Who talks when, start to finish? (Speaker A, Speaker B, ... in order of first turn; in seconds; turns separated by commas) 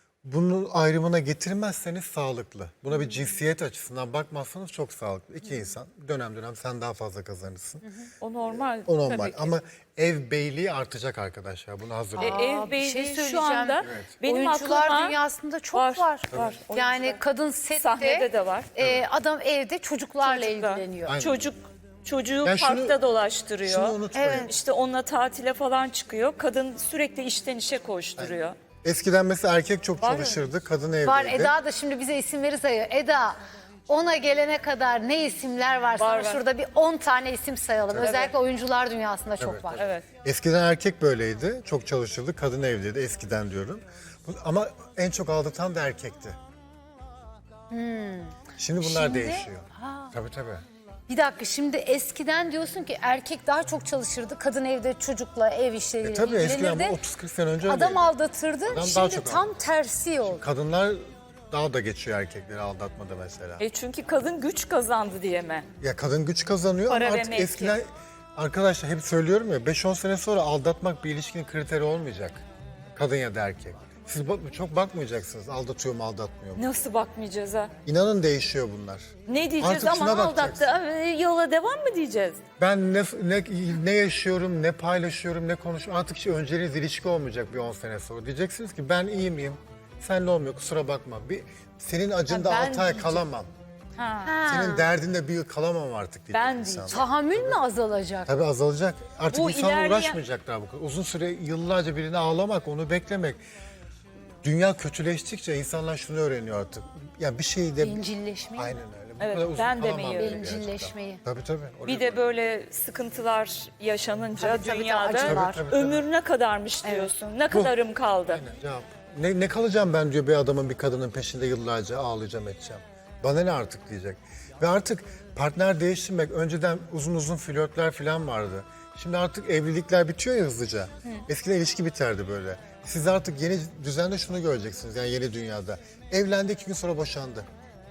Speaker A: 0.2-7.9, Speaker B: 8.2-9.5, Speaker A: 8.8-12.4, Speaker C: 12.2-21.1, Speaker B: 12.2-15.2, Speaker A: 13.8-14.1, Speaker B: 15.7-17.2, Speaker A: 16.3-16.6, Speaker B: 17.7-18.7, Speaker A: 18.8-19.1, Speaker B: 20.2-28.6, Speaker A: 21.0-21.5, Speaker A: 22.4-23.0, Speaker A: 23.6-24.6, Speaker C: 24.1-24.5, Speaker A: 28.2-31.5, Speaker B: 30.0-30.4, Speaker C: 31.0-33.4, Speaker C: 33.9-39.9, Speaker B: 36.0-36.4, Speaker A: 37.9-38.3, Speaker B: 38.0-38.3, Speaker A: 39.4-46.4, Speaker B: 39.7-40.0, Speaker C: 47.7-50.1, Speaker A: 48.6-50.6, Speaker C: 51.1-57.0, Speaker A: 56.0-58.1, Speaker C: 57.6-60.4, Speaker A: 58.6-59.5, Speaker A: 60.2-63.6, Speaker B: 63.6-65.7, Speaker A: 65.8-72.4, Speaker B: 66.9-67.8, Speaker A: 72.9-76.7, Speaker B: 76.5-77.7, Speaker A: 77.8-80.7, Speaker B: 79.3-82.4, Speaker A: 82.6-93.5, Speaker C: 92.3-93.2, Speaker B: 92.4-93.0, Speaker B: 94.0-94.4, Speaker C: 94.2-94.9, Speaker A: 94.4-97.6, Speaker B: 96.3-97.0, Speaker C: 96.9-98.3, Speaker A: 98.2-103.4, Speaker B: 99.3-100.2, Speaker A: 104.4-108.0, Speaker C: 107.8-108.7, Speaker A: 108.5-112.2, Speaker B: 109.2-110.4, Speaker C: 110.1-111.2, Speaker B: 111.8-118.4, Speaker C: 114.4-115.6, Speaker A: 114.4-116.1, Speaker C: 116.8-117.1, Speaker A: 118.3-137.5